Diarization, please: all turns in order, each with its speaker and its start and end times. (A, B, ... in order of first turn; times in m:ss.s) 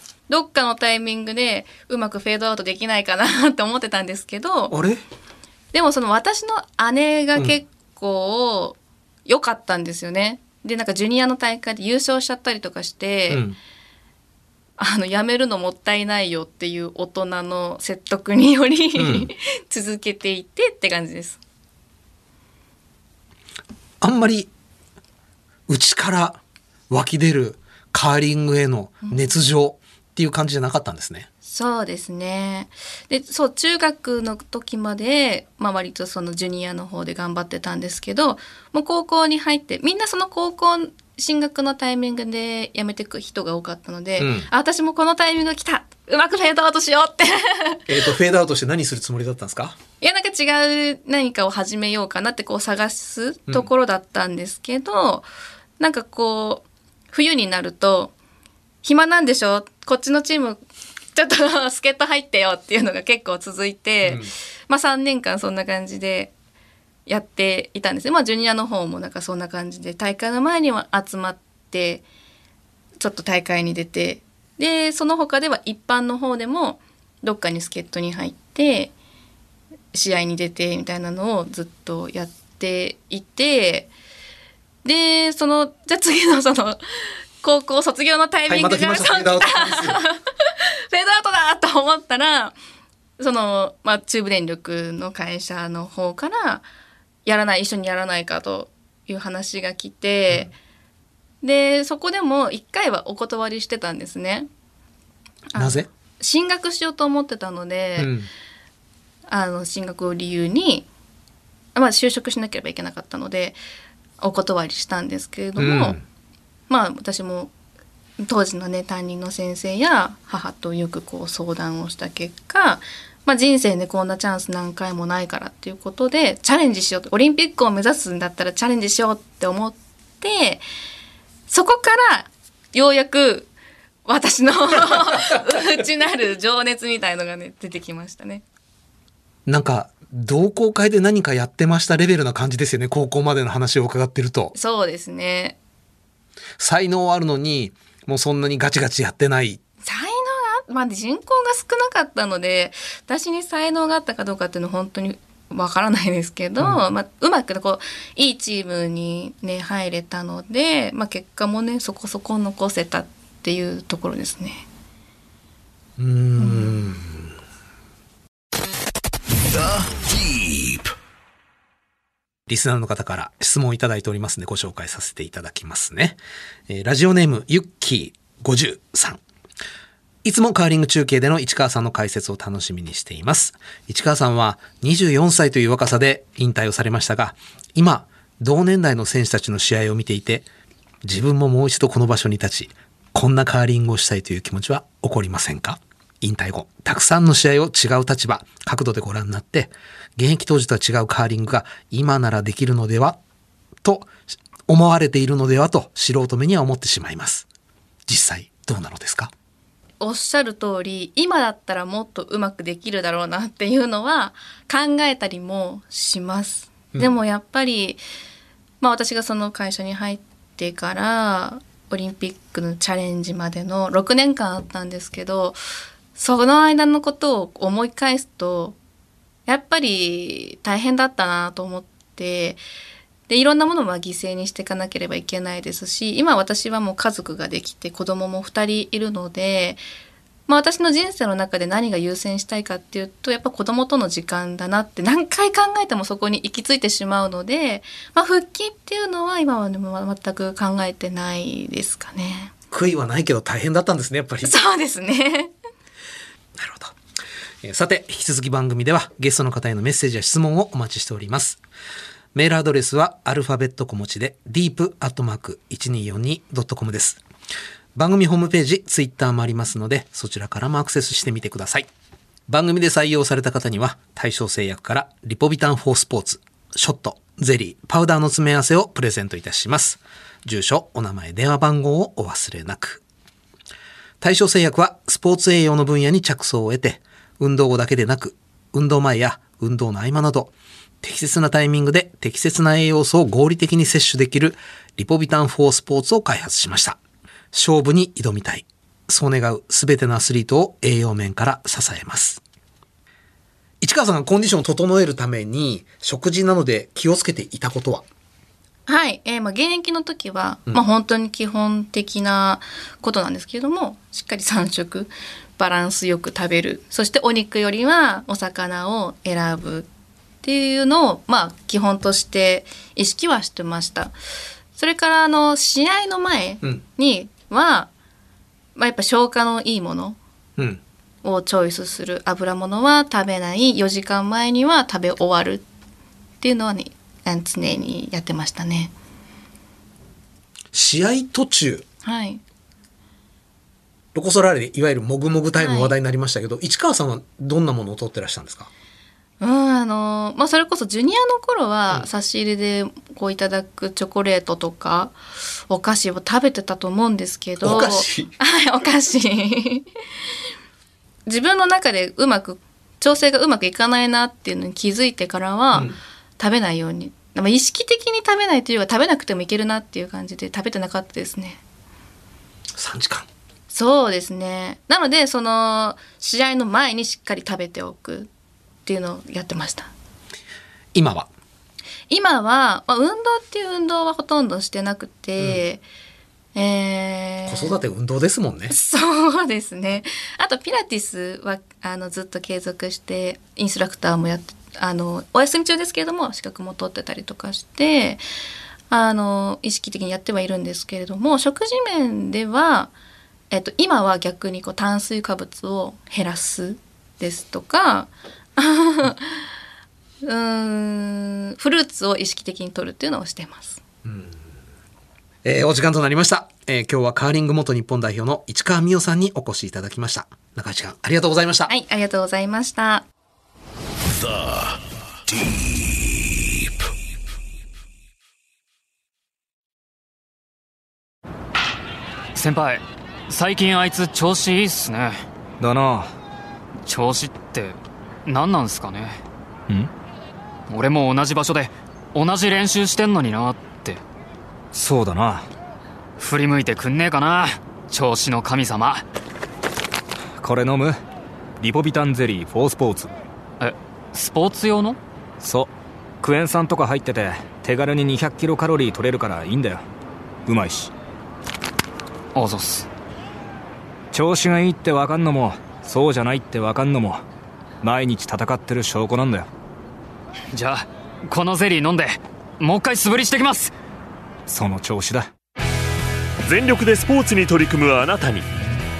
0:00.3-0:04.7 A
0:04.7-0:05.0 B
0:05.7-0:13.4 A
0:13.3-0:13.6 B
0:14.8-0:21.4 A
0:19.0-0:19.3 B
0:24.0-0:24.5 B
0:25.7-0:31.3 B
0:31.4-0:47.9 A
0:44.2-0:44.5 B
0:47.9-0:49.8 B
0:50.0-0:55.3 A
0:55.8-0:58.1 A
0:58.8-1:00.6 A
1:01.1-1:06.3 A
1:04.0-1:04.3 B
1:07.0-1:12.0 A
1:13.0-1:18.9 A
1:19.9-1:23.9 A
1:24.8-1:26.8 A
1:27.4-1:32.5 A
1:28.5-1:30.0 B
1:33.2-1:36.6 A
1:37.2-1:40.5 A
1:41.4-1:44.5 A
1:45.5-1:48.1 A
1:45.6-1:45.9 B
1:48.0-1:48.3 B
1:49.3-1:50.9 A
1:51.7-1:53.6 A
1:54.2-1:56.0 A
1:55.6-1:56.0 B
1:56.7-1:57.5 A
1:58.2-2:10.6 A
2:11.5-2:13.5 A
2:14.0-2:18.4 A
2:19.4-2:24.5 B
2:24.5-2:25.6 A
2:26.6-2:29.6 B
2:29.8-2:44.6 A
2:36.6-2:36.8 B
2:46.0-2:47.3 B
2:46.4-2:46.8 A
2:49.5-2:50.9 C
2:52.5-2:59.2 B
3:00.2-3:10.4 B
3:11.0-3:23.2 B
3:23.8-3:24.1 B
3:24.7-3:27.4 B
3:28.1-3:29.3 B
3:30.0-3:38.0 A
3:38.8-3:45.6 A
3:46.1-3:48.8 A
3:49.5-3:52.6 A
3:53.3-3:59.8 A
4:00.5-4:12.5 A
4:12.7-4:14.5 B
4:14.4-4:15.5 A
4:16.6-4:17.0 B
4:17.6-4:21.6 B
4:22.3-4:27.2 B
4:27.9-4:31.9 B
4:32.5-4:43.0 B
4:44.2-4:57.0 B
4:57.5-5:02.4 B
5:03.8-5:08.0 B
5:08.9-5:19.9 A
5:20.4-5:24.1 A
5:24.8-5:27.9 A
5:28.8-5:30.2 A
5:31.2-5:35.6 A
5:36.4-5:38.9 A
5:40.7-5:41.8 B
5:42.0-5:42.4 A
5:44.1-5:48.7 B
5:45.6-5:45.9 A
5:49.4-5:55.2 A
5:55.7-5:59.8 A
5:57.6-5:58.3 B
6:01.3-6:11.6 A
6:12.7-6:13.3 B
6:13.7-6:18.3 A
6:18.8-6:19.9 A
6:20.9-6:21.3 B
6:22.1-6:25.8 A
6:26.5-6:27.8 A
6:27.4-6:28.7 B
6:28.7-6:38.2 A
6:38.9-6:42.9 A
6:43.5-6:49.4 A
6:50.2-6:53.8 A
6:54.0-6:54.3 B
6:55.4-7:01.7 B
7:01.7-7:03.0 A
7:04.0-7:06.9 C
7:12.3-7:15.2 D
7:15.6-7:16.1 E
7:16.8-7:19.2 D
7:20.7-7:24.0 D
7:24.7-7:25.5 E
7:26.2-7:29.0 D
7:30.4-7:31.0 E
7:31.6-7:33.1 E
7:33.6-7:35.0 D
7:35.4-7:39.8 E
7:40.4-7:40.9 E
7:42.3-7:42.9 D
7:44.1-7:47.2 E
7:47.8-7:49.5 E
7:50.5-7:53.7 D
7:54.5-7:55.3 E
7:56.4-7:58.5 F